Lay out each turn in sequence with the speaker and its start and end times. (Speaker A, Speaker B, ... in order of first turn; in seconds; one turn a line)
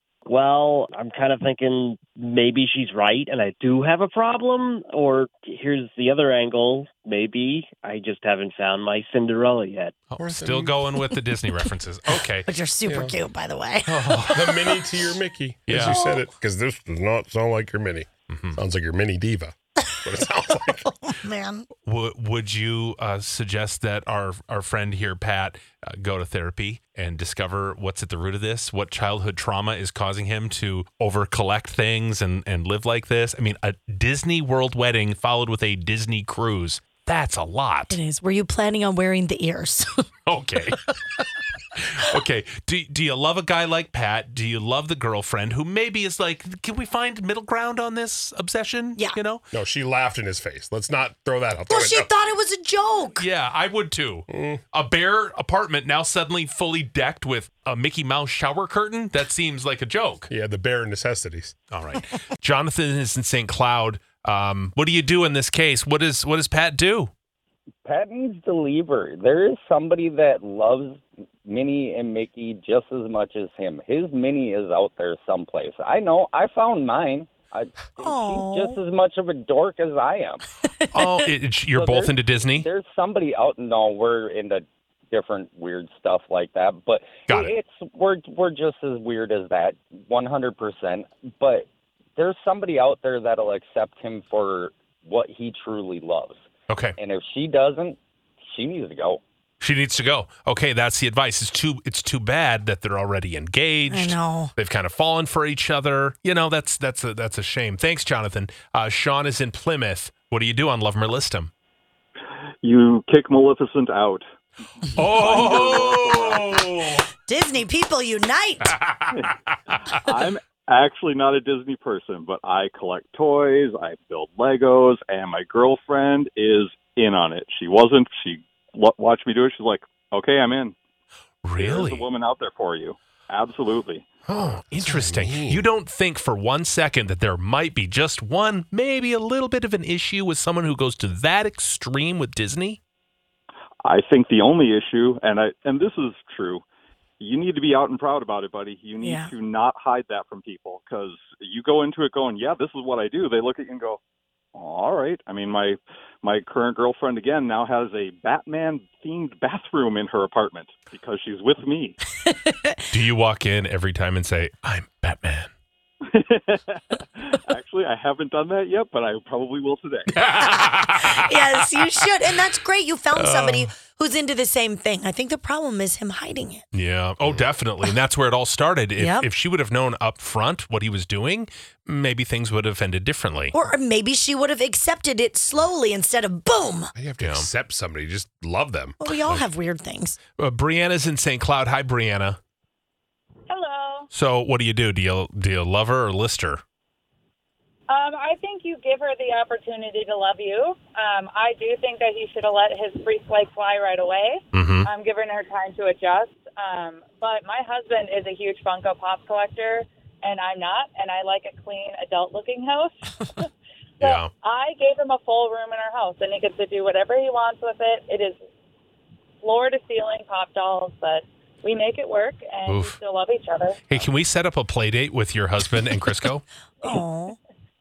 Speaker A: 0.2-9.9
Speaker B: 10.1-12.5
Speaker C: 10.2-10.8
Speaker D: 12.5-14.8
Speaker C: 12.8-13.2
Speaker B: 13.8-14.4
Speaker C: 14.3-20.8
Speaker B: 15.7-16.0
Speaker D: 15.8-16.2
Speaker B: 18.3-18.6
Speaker D: 20.0-21.6
Speaker B: 21.8-37.9
Speaker D: 37.9-40.0
Speaker B: 40.2-40.8
Speaker B: 41.8-49.5
Speaker C: 49.5-52.1
Speaker D: 51.7-53.2
Speaker B: 53.1-60.3
Speaker C: 54.3-54.6
Speaker C: 60.3-61.5
Speaker B: 61.7-67.1
Speaker E: 67.8-80.4
Speaker D: 78.0-78.8
Speaker D: 80.8-81.1
Speaker B: 80.9-82.7
Speaker E: 81.7-96.4
Speaker B: 87.3-87.5
Speaker B: 96.7-96.9
Speaker E: 97.0-99.2
Speaker B: 99.6-111.5
Speaker D: 103.9-104.5
Speaker F: 112.6-114.3
Speaker B: 114.9-117.0
Speaker F: 115.0-116.9
Speaker D: 117.2-118.7
Speaker B: 118.6-119.1
Speaker F: 119.1-130.8
Speaker B: 131.4-132.1
Speaker F: 131.6-134.1
Speaker B: 134.3-142.8
Speaker C: 134.3-135.6
Speaker F: 143.8-146.6
Speaker F: 147.2-154.0
Speaker D: 149.0-149.3
Speaker F: 154.5-162.0
Speaker D: 162.2-162.8
Speaker B: 162.9-165.5
Speaker F: 166.1-170.1
Speaker B: 170.1-171.7
Speaker D: 170.3-176.6
Speaker B: 173.1-173.7
Speaker B: 176.7-183.5
Speaker C: 177.2-177.5
Speaker D: 179.0-179.3
Speaker D: 183.5-186.9
Speaker C: 186.9-189.4
Speaker B: 187.2-187.5
Speaker D: 189.0-190.2
Speaker B: 190.4-192.4
Speaker G: 193.5-194.1
Speaker B: 194.1-196.6
Speaker G: 197.9-213.5
Speaker B: 204.5-204.9
Speaker G: 214.0-218.4
Speaker B: 214.0-214.3
Speaker G: 219.4-223.8
Speaker B: 222.7-223.0
Speaker B: 223.9-226.4
Speaker D: 226.8-227.4